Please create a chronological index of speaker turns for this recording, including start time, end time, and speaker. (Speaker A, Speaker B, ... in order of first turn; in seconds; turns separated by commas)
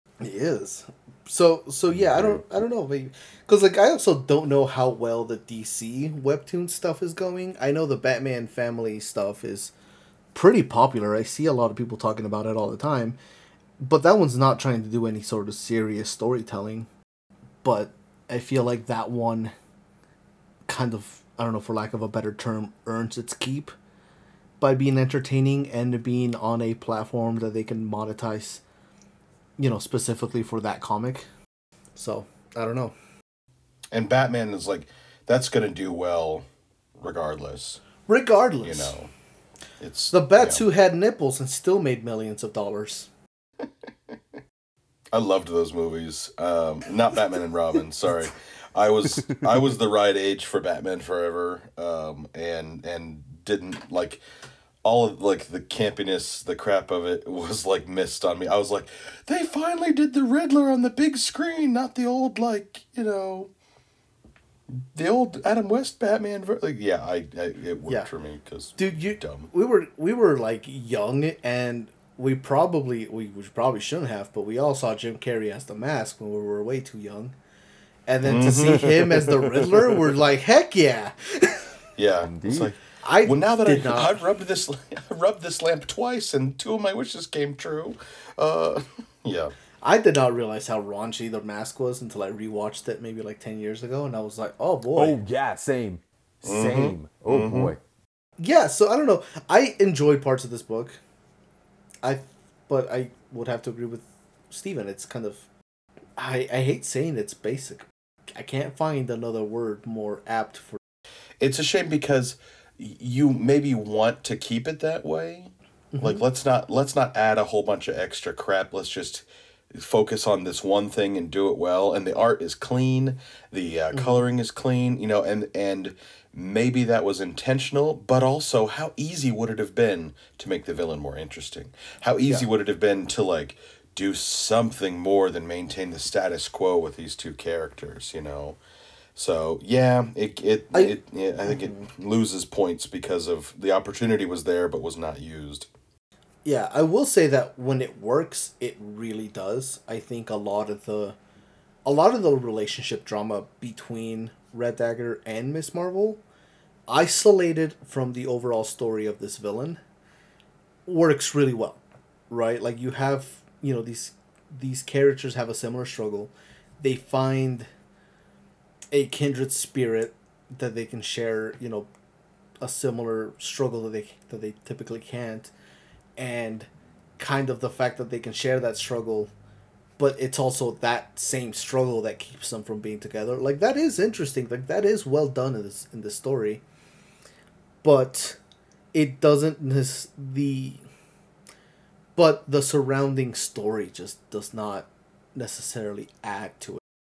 Speaker A: 0.2-9.7, Speaker B: 1.9-2.6, Speaker A: 10.3-13.2, Speaker A: 13.8-16.9, Speaker A: 17.6-19.5, Speaker A: 20.7-23.7, Speaker A: 24.6-28.6, Speaker A: 29.6-31.3, Speaker A: 32.0-32.9, Speaker B: 33.9-37.8, Speaker A: 38.1-39.0, Speaker B: 38.6-39.1, Speaker B: 39.8-40.6, Speaker A: 40.1-43.1, Speaker B: 45.1-54.2, Speaker B: 54.8-63.5, Speaker B: 64.7-69.5, Speaker A: 68.8-77.4, Speaker A: 78.1-81.8, Speaker B: 78.2-80.0, Speaker B: 82.0-89.5, Speaker C: 82.2-82.8, Speaker A: 83.0-84.2, Speaker A: 89.8-95.2, Speaker C: 95.0-97.8, Speaker B: 96.4-97.7, Speaker A: 98.4-101.0, Speaker A: 102.0-105.5, Speaker A: 106.2-110.8, Speaker B: 111.4-138.6, Speaker A: 115.9-116.2, Speaker A: 123.9-124.2, Speaker B: 139.2-145.7, Speaker A: 140.7-141.9, Speaker A: 146.4-151.2, Speaker A: 151.8-156.2, Speaker A: 156.9-159.8, Speaker A: 160.9-167.7, Speaker A: 168.9-171.9, Speaker A: 172.6-175.5, Speaker A: 176.2-179.3, Speaker A: 180.0-186.6, Speaker A: 187.8-188.4, Speaker A: 188.9-190.8, Speaker A: 192.2-196.8